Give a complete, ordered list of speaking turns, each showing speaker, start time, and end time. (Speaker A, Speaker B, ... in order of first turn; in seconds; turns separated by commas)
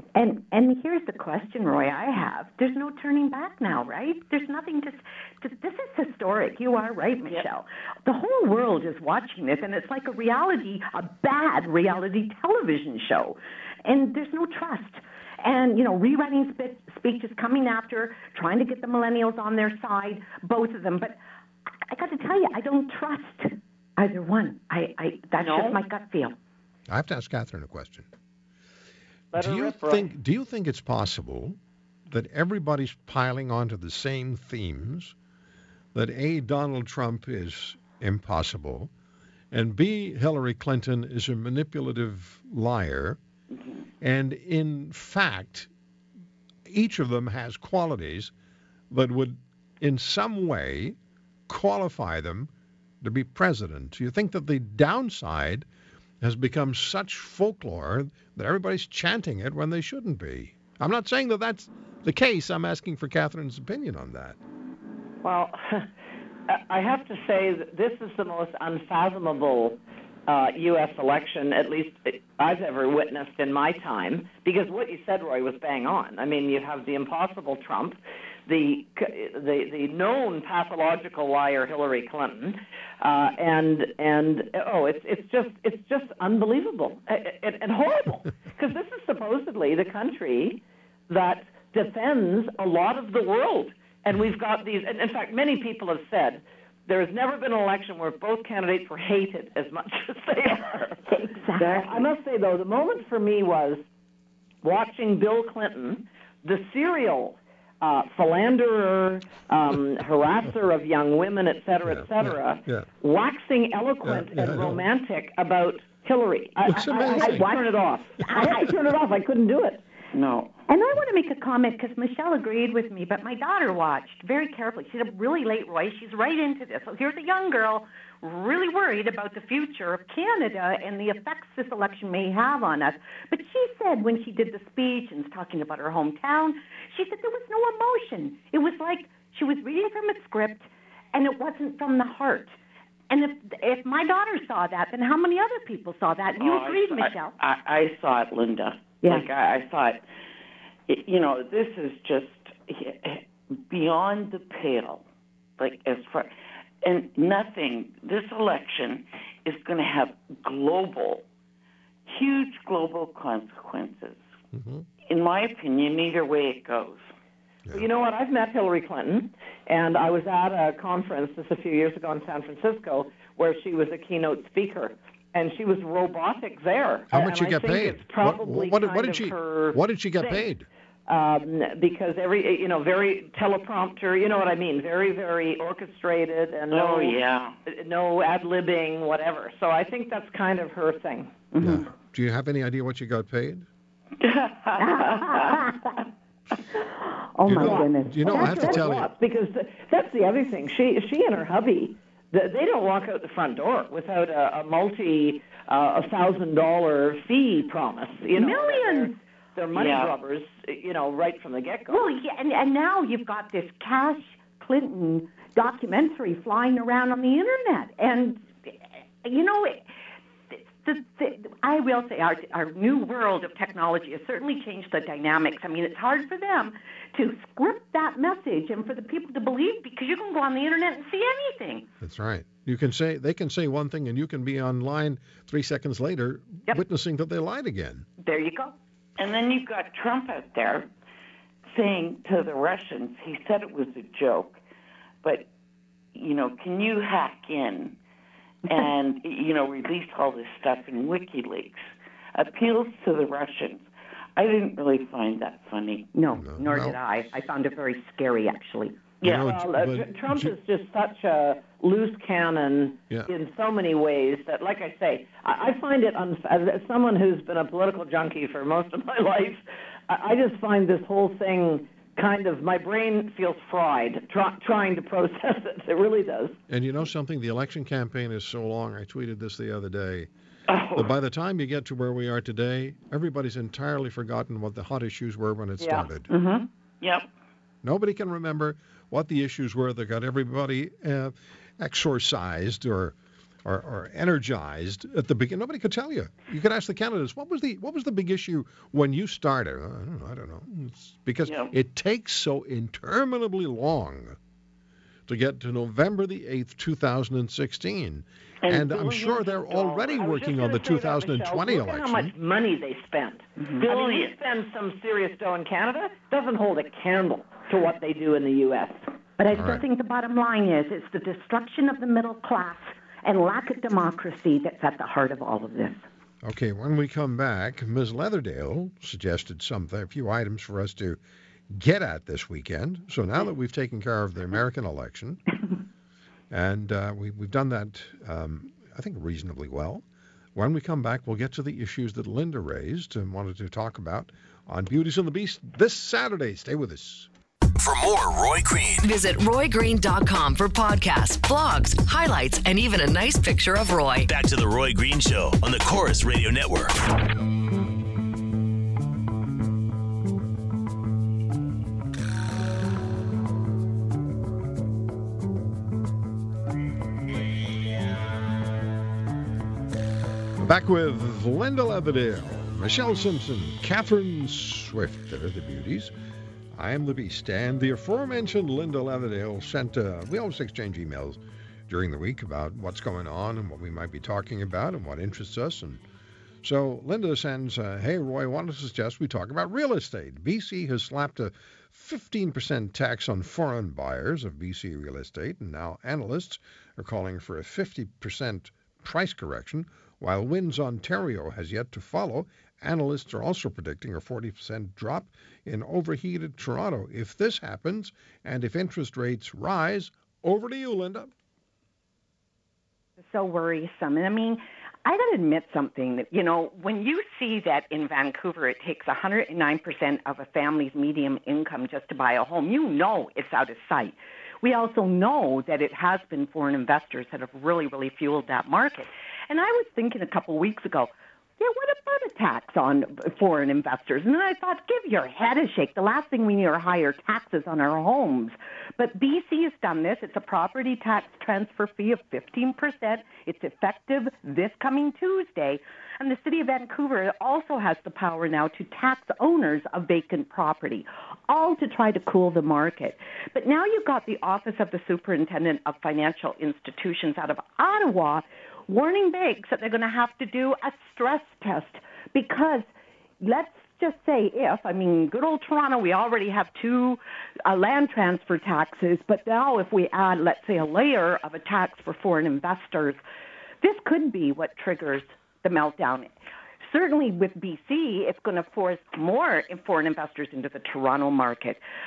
Speaker A: 0.1-21.2, Speaker A: 21.9-26.4, Speaker B: 25.4-25.8, Speaker C: 26.9-28.1, Speaker D: 29.3-30.1, Speaker C: 29.4-31.6, Speaker C: 32.1-35.1, Speaker C: 35.9-38.9, Speaker C: 39.5-43.2, Speaker C: 44.0-45.7, Speaker C: 46.7-48.3, Speaker C: 48.9-51.0, Speaker C: 51.5-52.5, Speaker C: 53.0-55.7, Speaker C: 56.2-64.4, Speaker D: 65.2-65.9, Speaker D: 66.5-101.1, Speaker A: 101.2-101.9, Speaker B: 101.6-102.1, Speaker D: 101.8-103.8, Speaker D: 104.6-119.8, Speaker C: 111.8-112.9, Speaker C: 114.0-114.8, Speaker C: 116.7-117.5, Speaker A: 116.9-118.7, Speaker B: 120.1-120.5, Speaker A: 120.7-142.5, Speaker A: 143.1-147.3, Speaker B: 146.4-150.0, Speaker B: 150.9-155.0, Speaker B: 155.6-156.3, Speaker B: 156.8-161.2, Speaker B: 162.1-164.2, Speaker C: 164.5-164.9, Speaker B: 165.1-167.0, Speaker D: 167.7-180.4, Speaker C: 177.1-180.7, Speaker D: 181.1-191.3, Speaker B: 186.7-187.6, Speaker A: 191.5-191.9, Speaker C: 191.6-193.7, Speaker B: 194.2-195.6, Speaker A: 194.8-195.9, Speaker A: 196.8-198.8, Speaker C: 197.4-199.1, Speaker D: 197.6-212.0, Speaker A: 208.4-209.2, Speaker B: 209.7-210.1, Speaker A: 211.9-219.9, Speaker A: 220.5-231.9, Speaker C: 232.0-238.1, Speaker A: 238.2-238.7, Speaker B: 239.2-240.9, Speaker B: 241.7-244.6, Speaker B: 245.2-245.5, Speaker B: 246.1-247.9, Speaker B: 248.7-251.8, Speaker B: 252.3-256.1, Speaker A: 256.1-259.0, Speaker C: 256.3-257.0, Speaker B: 259.2-259.5, Speaker C: 259.2-260.5, Speaker D: 259.3-276.5, Speaker C: 276.7-280.3, Speaker B: 280.7-281.1, Speaker C: 280.9-286.3, Speaker D: 285.8-286.1, Speaker B: 286.3-287.3, Speaker C: 287.8-304.4, Speaker B: 301.4-301.7, Speaker C: 305.3-312.3, Speaker B: 308.6-310.2, Speaker D: 310.2-319.0, Speaker A: 313.6-313.8, Speaker B: 313.8-314.3, Speaker A: 319.4-326.0, Speaker C: 319.5-319.8, Speaker C: 326.4-331.2, Speaker C: 331.7-335.4, Speaker C: 336.5-340.0, Speaker C: 340.5-347.3, Speaker E: 347.8-349.0, Speaker F: 349.0-354.3, Speaker E: 354.3-357.0, Speaker C: 370.6-376.1, Speaker C: 376.8-386.0, Speaker C: 386.6-411.3, Speaker A: 413.2-462.9, Speaker A: 463.4-473.2, Speaker A: 473.8-476.3, Speaker A: 476.9-481.8